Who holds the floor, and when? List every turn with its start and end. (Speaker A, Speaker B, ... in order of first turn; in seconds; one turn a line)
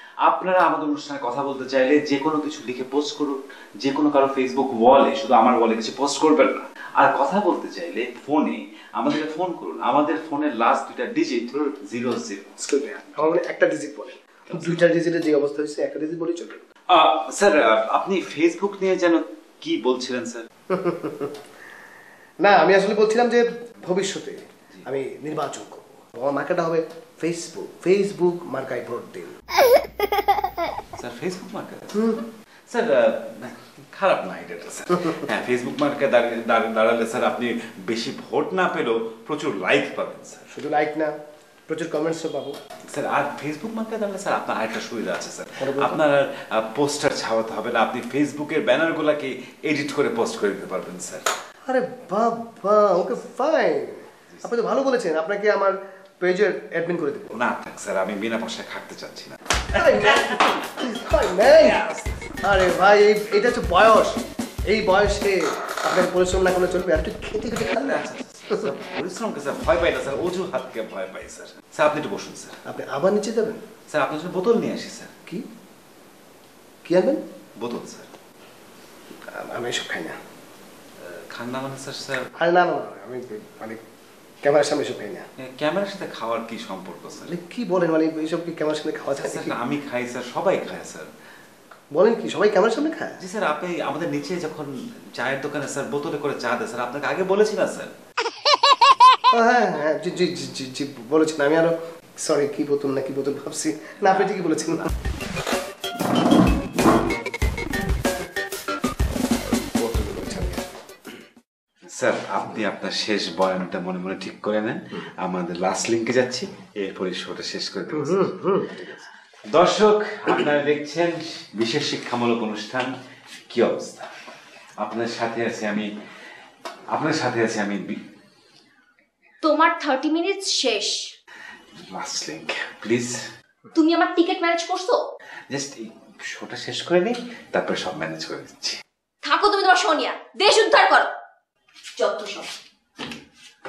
Speaker A: 0.3-12.6
Speaker B: 12.6-16.6
Speaker A: 14.5-14.9
Speaker A: 16.9-20.5
Speaker B: 20.7-21.3
Speaker B: 22.4-29.3
Speaker A: 31.0-32.2
Speaker B: 31.9-32.2
Speaker A: 32.7-40.5
Speaker B: 40.5-41.1
Speaker B: 41.7-42.5
Speaker A: 42.9-51.2
Speaker B: 45.6-46.0
Speaker B: 51.7-57.3
Speaker A: 57.3-60.5
Speaker B: 59.7-61.8
Speaker A: 61.5-62.4
Speaker B: 62.4-64.2
Speaker B: 64.7-68.7
Speaker A: 67.6-72.6
Speaker B: 72.7-73.6
Speaker A: 73.9-75.1
Speaker B: 76.9-77.2
Speaker A: 77.6-78.1
Speaker B: 79.3-80.2
Speaker A: 81.1-82.3
Speaker B: 82.4-83.8
Speaker B: 84.4-85.3
Speaker A: 85.4-87.3
Speaker B: 87.2-89.6
Speaker A: 89.2-91.1
Speaker B: 92.0-93.2
Speaker A: 93.2-97.9
Speaker B: 99.3-104.9
Speaker A: 104.0-104.3
Speaker B: 109.8-110.7
Speaker A: 111.9-118.3
Speaker B: 117.9-119.1
Speaker A: 119.5-122.9
Speaker A: 123.5-124.1
Speaker A: 124.8-125.9
Speaker A: 126.9-128.0
Speaker C: 129.4-131.1
Speaker A: 131.8-133.2
Speaker C: 133.7-135.0
Speaker A: 135.5-138.8
Speaker C: 139.2-141.1
Speaker C: 142.0-142.5